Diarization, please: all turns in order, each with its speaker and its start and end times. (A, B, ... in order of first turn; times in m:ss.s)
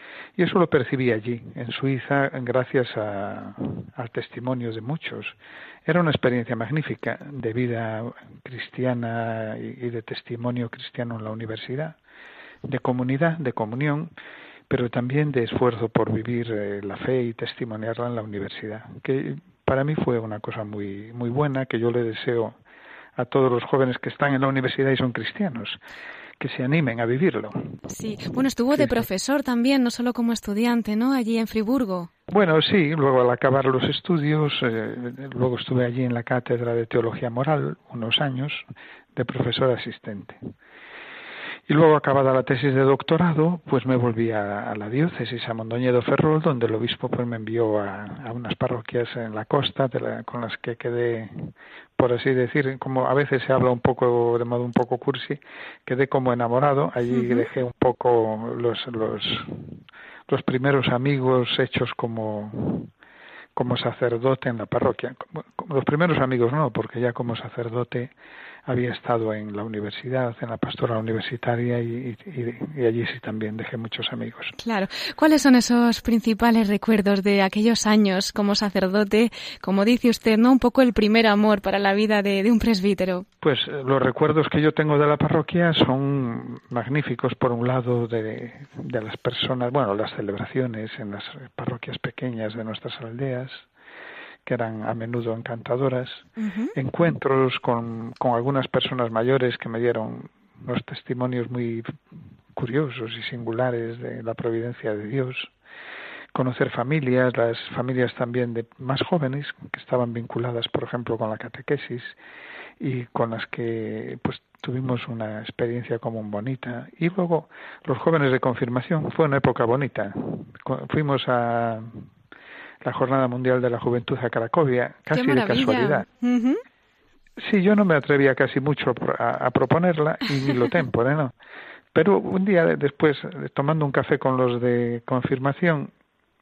0:00.4-0:12.0 A
0:12.6-0:14.1 A
0:14.7-0:22.6 A
0:23.2-0:25.8 A
0:26.4-0:27.8 A
0:27.9-0:32.1 B
0:28.7-0:29.1 A
0:32.3-0:40.4 A
0:41.7-1:02.9 A
0:57.1-0:57.4 B
1:03.6-1:08.1 A
1:08.6-1:14.5 A
1:14.6-1:23.2 B
1:23.4-1:33.6 A
1:34.4-1:41.9 A
1:36.4-1:36.7 B
1:42.5-1:45.5 A
1:46.3-1:52.2 A
1:52.8-2:02.0 A
2:02.8-2:06.0 A
2:05.1-2:06.6 B
2:07.4-2:11.3 A
2:11.9-2:15.9 A